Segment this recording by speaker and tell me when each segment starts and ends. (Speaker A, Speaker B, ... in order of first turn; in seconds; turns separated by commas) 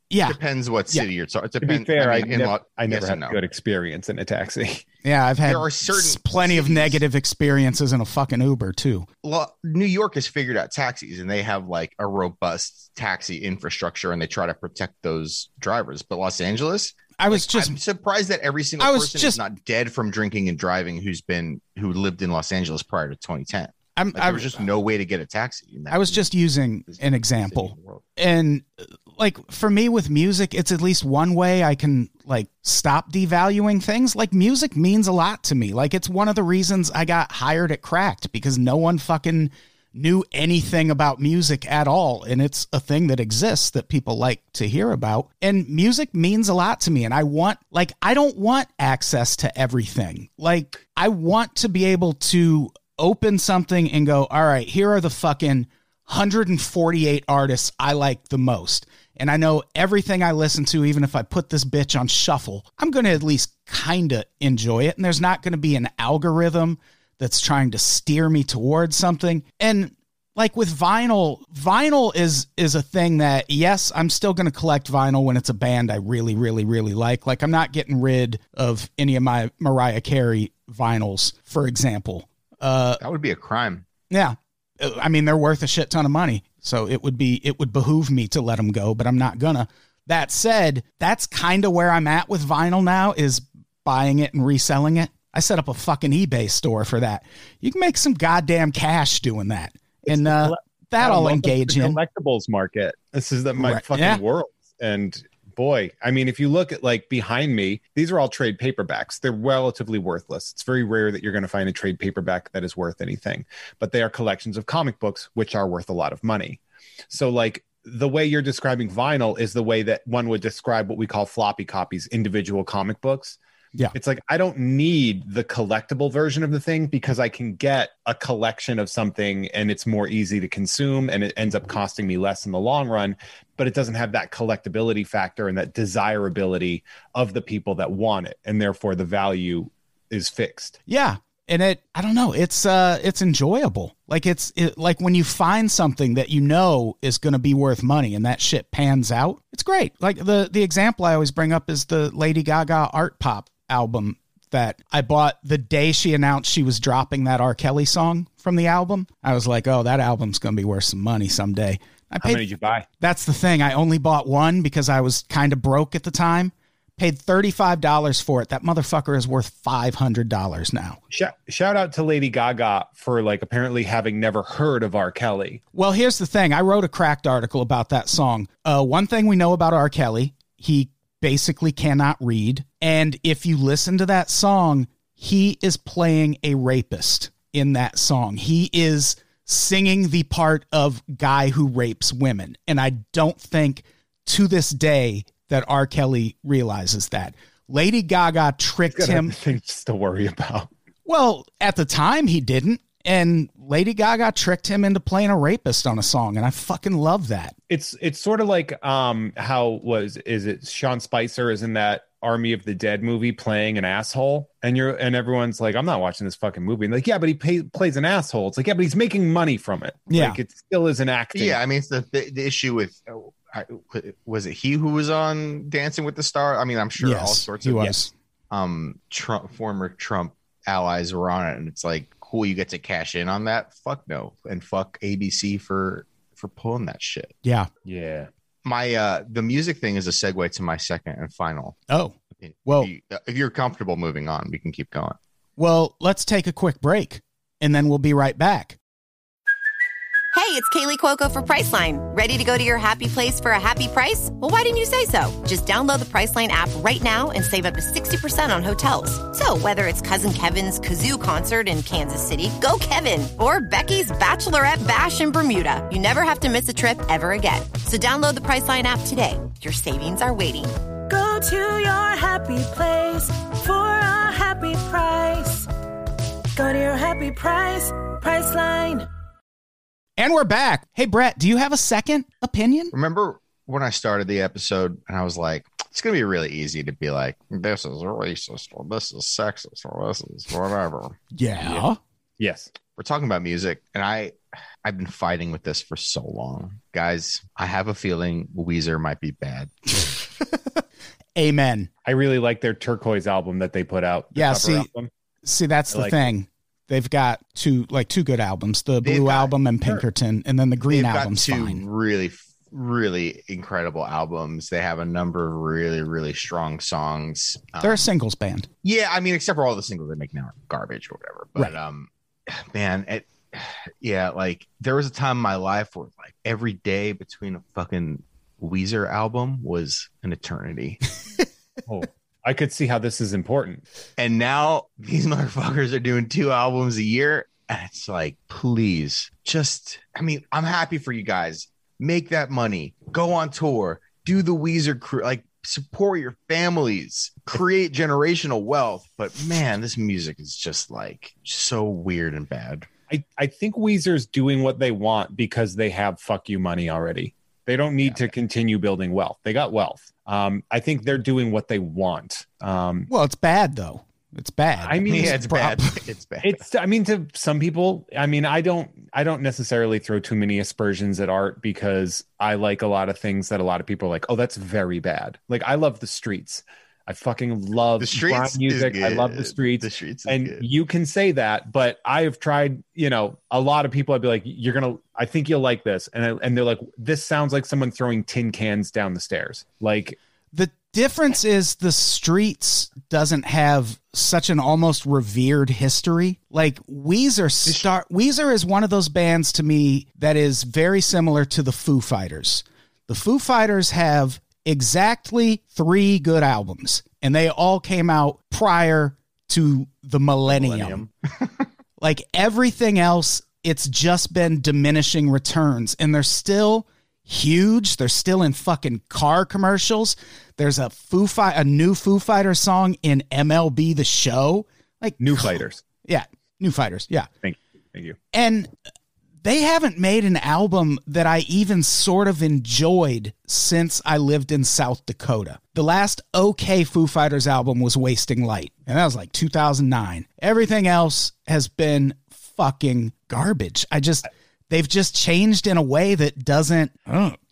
Speaker A: 0.1-0.4, Speaker B: 0.2-3.4, Speaker C: 1.6-4.8, Speaker A: 5.0-9.1, Speaker B: 5.5-7.0, Speaker B: 9.2-26.3, Speaker A: 17.2-17.8, Speaker A: 18.8-19.4, Speaker A: 24.0-24.6, Speaker A: 25.9-83.0, Speaker B: 26.9-28.1, Speaker B: 83.0-83.8, Speaker A: 84.1-102.0, Speaker C: 100.1-123.4, Speaker A: 103.6-104.2, Speaker C: 123.9-140.8, Speaker A: 140.9-162.4, Speaker C: 162.2-162.9, Speaker A: 163.0-171.0, Speaker C: 171.1-175.6, Speaker A: 175.8-199.3, Speaker C: 198.9-200.7, Speaker A: 201.1-207.6, Speaker C: 207.7-221.6, Speaker A: 220.1-220.4, Speaker B: 221.3-228.0, Speaker A: 227.0-228.1, Speaker B: 228.5-237.3, Speaker C: 237.8-238.3, Speaker B: 238.7-241.8, Speaker A: 241.9-242.9, Speaker B: 242.4-245.2, Speaker A: 245.6-248.8, Speaker D: 250.3-270.8, Speaker E: 271.1-275.7, Speaker E: 276.6-279.1, Speaker A: 280.2-282.9, Speaker B: 282.9-291.9, Speaker A: 291.3-292.0, Speaker C: 292.4-292.7, Speaker B: 293.0-300.1, Speaker A: 300.5-300.8, Speaker A: 301.4-301.9, Speaker C: 302.1-305.1, Speaker A: 304.4-304.9, Speaker A: 305.4-311.8, Speaker C: 305.9-306.2, Speaker B: 309.0-309.5, Speaker B: 310.9-318.1, Speaker A: 317.8-318.7, Speaker B: 318.8-331.0, Speaker C: 331.9-333.8, Speaker B: 334.2-352.9, Speaker C: 353.1-363.1, Speaker B: 358.0-358.3, Speaker A: 363.1-366.0, Speaker C: 364.8-365.4, Speaker B: 365.1-366.6, Speaker C: 366.4-390.2, Speaker B: 378.0-380.6, Speaker A: 390.5-411.0, Speaker B: 410.5-411.5, Speaker A: 412.0-427.3, Speaker C: 425.2-425.8, Speaker C: 427.4-428.2, Speaker A: 428.3-428.7, Speaker A: 429.4-447.4